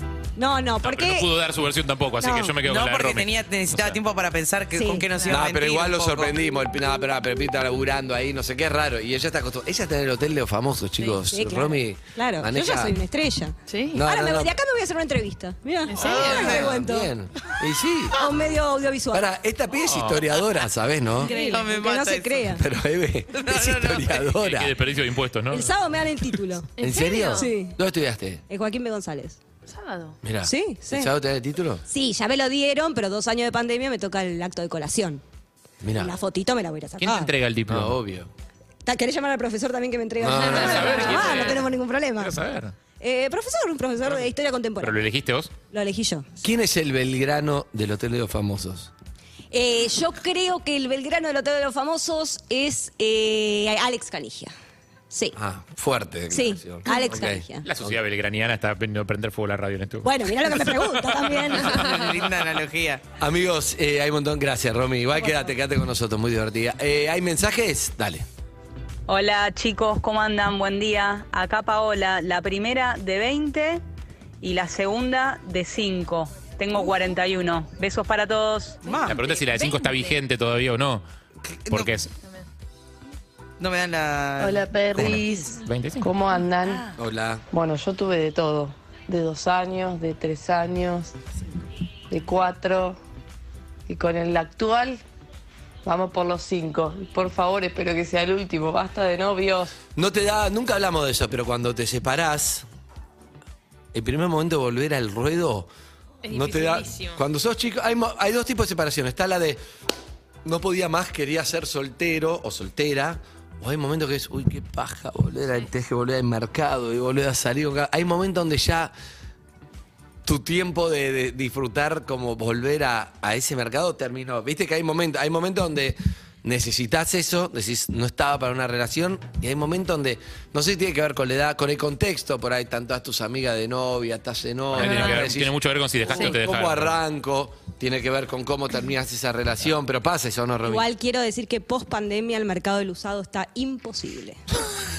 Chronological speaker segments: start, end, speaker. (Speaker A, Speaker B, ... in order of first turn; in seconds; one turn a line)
Speaker A: 0.4-1.3
Speaker B: 0.8-4.0
Speaker A: 2.2-2.5
Speaker C: 2.5-6.4
Speaker A: 4.7-5.0
Speaker D: 5.3-13.0
Speaker A: 11.3-17.1
Speaker E: 13.7-14.0
Speaker D: 13.9-14.5
Speaker E: 15.9-16.8
Speaker C: 16.0-16.7
Speaker D: 16.0-18.2
Speaker A: 18.1-19.3
Speaker D: 19.1-21.3
Speaker B: 19.9-20.4
Speaker E: 21.2-21.6
Speaker A: 21.2-22.6
Speaker C: 21.3-22.6
Speaker D: 22.5-24.7
Speaker C: 23.3-24.3
Speaker B: 24.4-25.8
Speaker A: 25.5-26.7
Speaker E: 26.8-27.5
Speaker D: 26.8-28.4
Speaker A: 27.3-27.8
Speaker A: 28.5-29.4
Speaker E: 29.6-30.2
Speaker D: 30.2-31.8
Speaker A: 30.4-31.1
Speaker A: 31.9-35.2
Speaker D: 35.8-36.1
Speaker A: 35.9-37.3
Speaker B: 37.0-38.0
Speaker D: 37.7-38.3
Speaker A: 38.8-42.4
Speaker D: 40.2-40.8
Speaker E: 40.3-41.7
Speaker B: 40.5-41.6
Speaker B: 42.2-42.7
Speaker A: 43.0-45.0
Speaker B: 44.8-45.5
Speaker A: 45.7-46.3
Speaker D: 46.4-48.9
Speaker A: 49.5-54.5
Speaker A: 55.1-55.4
Speaker D: 55.3-58.0
Speaker A: 56.3-57.7
Speaker B: 57.6-61.0
Speaker A: 60.0-61.8
Speaker C: 61.6-63.0
Speaker D: 63.2-68.2
Speaker A: 65.1-65.5
Speaker F: 69.1-73.8
Speaker F: 74.4-78.8
Speaker C: 78.8-79.2
Speaker E: 78.9-80.2
Speaker B: 79.1-81.0
Speaker B: 81.7-82.1
Speaker C: 83.6-85.2
Speaker G: 84.4-86.9
Speaker B: 84.9-86.1
Speaker D: 87.0-87.4
Speaker G: 87.5-91.1
Speaker G: 92.1-93.0
Speaker G: 93.9-95.0
Speaker G: 95.8-99.7
Speaker D: 100.0-102.6
Speaker D: 103.9-105.7
Speaker E: 106.2-107.2
Speaker D: 106.3-109.6
Speaker D: 110.4-118.9
Speaker D: 120.2-140.8
Speaker B: 134.7-137.0
Speaker E: 134.8-135.2
Speaker A: 140.6-144.4